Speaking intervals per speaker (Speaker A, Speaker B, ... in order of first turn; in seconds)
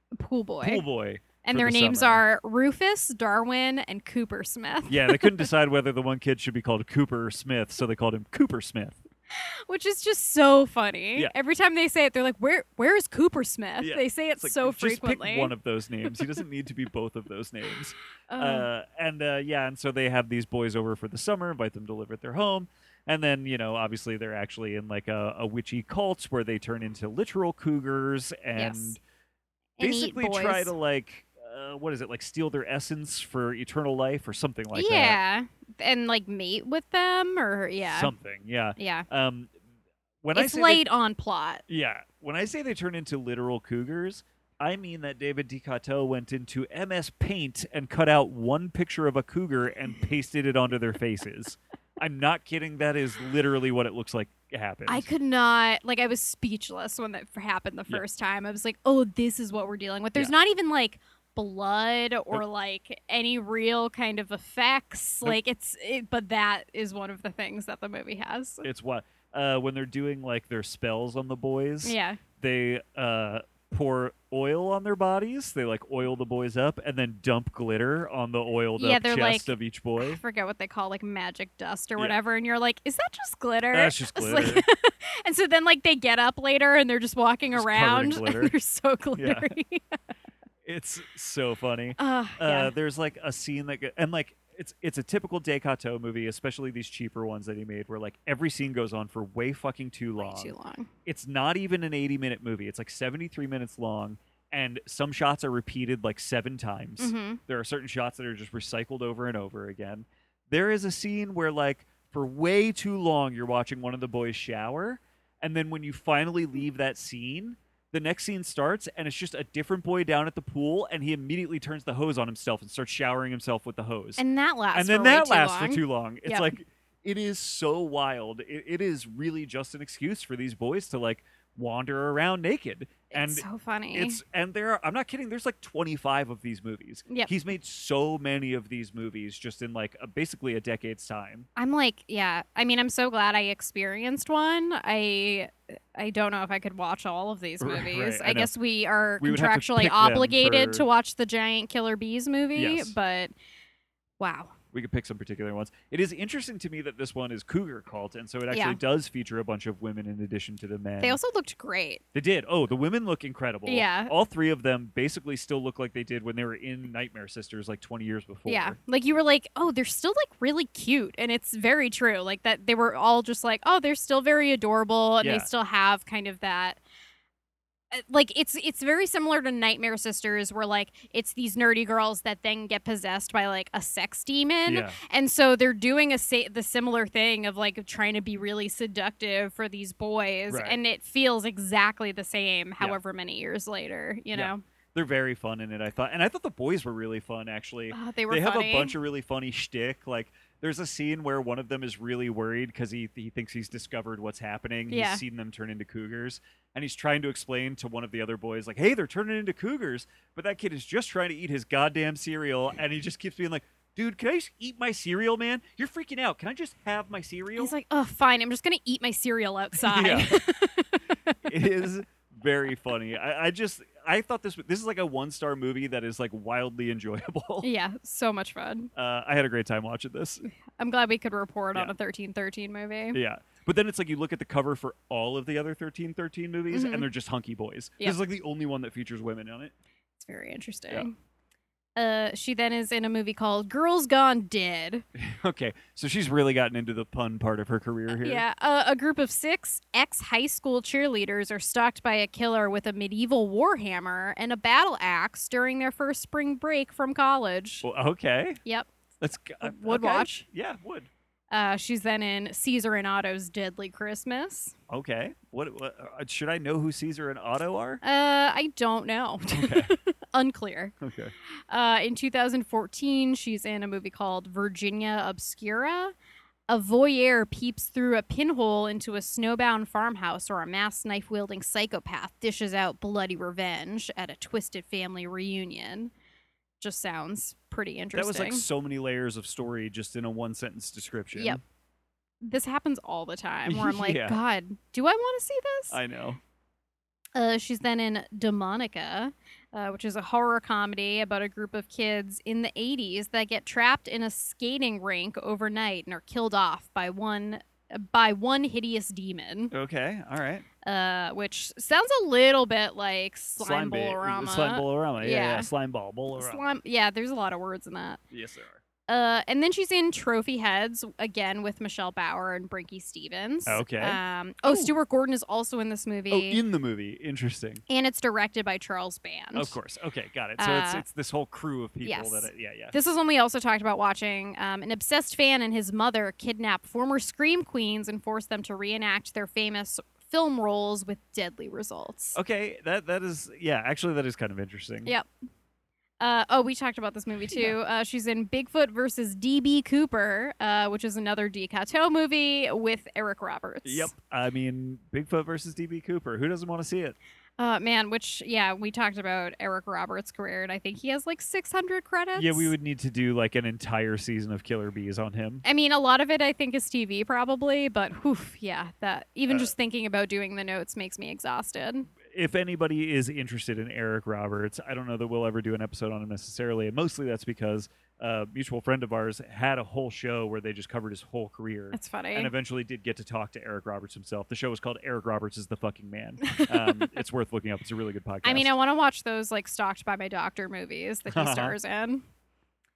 Speaker A: 0.2-0.8, 1.4-5.5, 9.3-15.5, 18.3-18.7, 28.6-29.0, 29.8-30.7, 34.7-38.1, 38.8-39.1, 40.3-41.6, 54.9-68.7, 71.8-72.2, 78.8-90.0, 92.0-92.7, 100.2-100.9, 107.0-107.4, 124.2-126.5, 133.1-134.2, 141.6-153.3, 154.2-154.6, 158.5-158.8, 161.0-162.0, 163.7-164.1, 168.5-176.8, 177.9-194.6, 197.9-198.9, 204.9-205.2, 217.6-221.4, 227.6-228.9, 230.5-233.2, 236.7-237.1, 240.2-241.1, 242.0-245.1, 248.1-257.9, 259.6-260.4, 261.5-264.8, 268.0-270.9, 271.7-276.1, 276.7-286.1, 286.8-288.6, 291.4-291.6, 292.4-296.0, 297.4-309.7, 310.8-315.7, 316.3-318.2, 319.1-326.6, 327.9-329.8, 330.6-331.0, 332.0-342.4, 346.2-354.1, 357.6-362.7, 365.6-372.1, 381.9-382.5, 386.4-387.1, 388.4-392.2
Speaker B: 0.6-2.2, 4.9-9.0, 13.8-29.0, 29.8-35.2, 37.9-39.5, 40.2-40.9, 41.7-55.1, 68.6-80.2, 83.7-84.7, 87.5-88.5, 89.2-89.5, 90.7-100.5, 101.1-124.2, 124.7-141.5, 147.6-148.5, 149.2-150.9, 152.6-152.9, 154.7-161.2, 162.1-168.8, 175.2-175.5, 184.7-185.0, 190.5-190.8, 194.3-217.7, 219.8-220.4, 221.4-227.7, 228.9-230.4, 233.1-239.7, 245.2-248.4, 257.8-258.6, 259.2-261.1, 264.9-268.0, 269.5-269.9, 271.0-271.3, 288.1-291.6, 293.7-294.4, 295.9-296.4, 309.7-310.7, 313.6-316.6, 318.3-318.8, 323.7-324.9, 326.3-327.8, 329.6-332.9, 342.4-345.1, 353.9-357.2, 362.4-365.6, 372.2-388.7, 391.3-391.8